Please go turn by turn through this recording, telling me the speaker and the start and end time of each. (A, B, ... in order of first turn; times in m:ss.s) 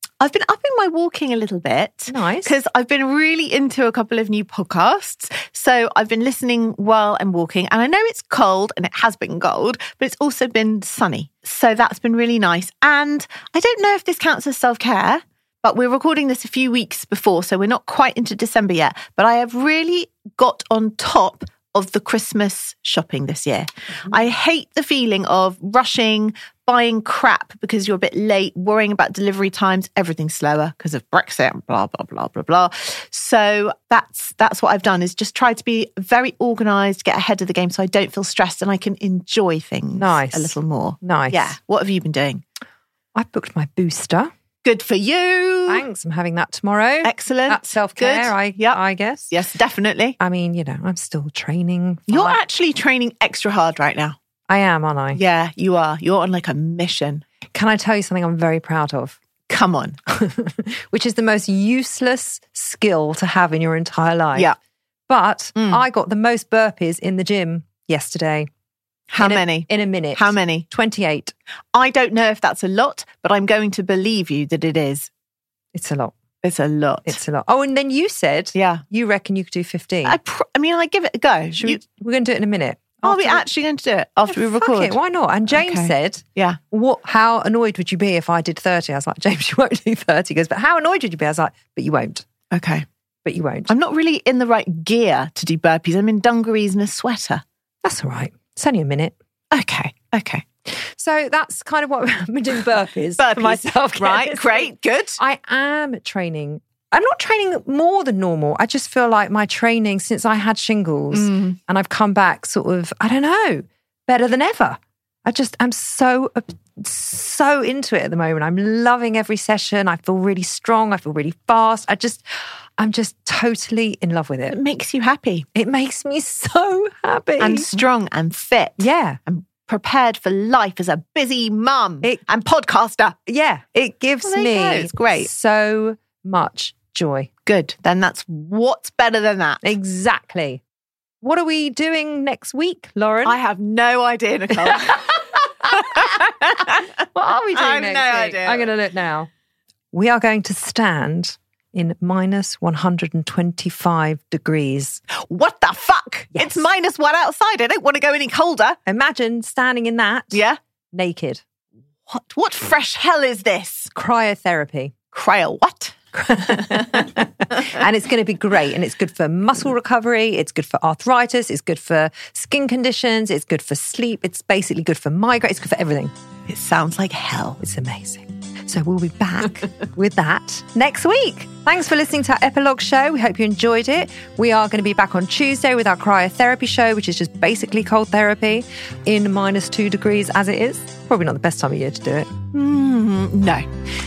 0:00.2-0:42.4 A
0:02.1-0:02.5 B
0:40.0-0:41.6 B
0:43.1-0:44.3 B
0:44.6-0:45.8 A
0:45.7-0:49.4 B
0:47.0-0:50.2 A
0:50.2-0:52.4 B
0:52.1-0:54.2 A
0:54.5-0:55.2 B
0:55.1-0:57.2 A
0:57.5-0:59.2 B
0:59.5-1:00.0 A
1:00.1-1:04.5 B
1:05.1-1:08.5 B
1:05.6-1:05.8 A
1:09.1-1:10.7 A
1:09.2-1:11.3 B
1:11.7-1:15.1 A
1:15.7-1:16.1 B
1:16.4-1:17.2 A
1:17.0-1:20.2 B
1:18.5-1:18.8 A
1:20.0-1:21.8 A
1:21.5-1:23.5 B
1:23.0-1:25.0 A
1:24.3-1:32.2 B
1:25.5-1:26.6 A
1:32.5-1:32.8 A
1:33.2-1:33.7 B
1:33.7-1:37.4 A
1:37.8-1:39.1 B
1:39.5-1:40.4 A
1:40.7-2:04.6 B
1:43.2-1:45.2 A
1:51.1-1:51.6 A
2:04.5-2:05.4 A
2:05.5-2:07.7 B
2:07.4-2:13.2 A
2:08.8-2:09.2 B
2:13.2-2:17.3 B
2:14.2-2:15.3 A
2:17.4-2:19.6 A
2:19.6-2:20.6 B
2:21.2-2:23.4 B
2:23.2-2:26.9 A
2:24.5-2:26.2 B
2:27.1-2:29.3 B
2:27.5-2:28.7 A
2:29.9-2:35.0 B
2:35.1-2:38.8 A
2:36.3-2:36.6 B
2:38.8-2:40.4 B
2:40.3-2:40.6 A
2:40.9-2:41.4 B
2:42.1-2:43.9 A
2:43.9-2:44.9 B
2:45.1-2:47.0 A
2:46.1-2:56.1 B
2:56.5-2:57.6 A
2:57.6-3:12.3 B
3:12.5-3:13.6 A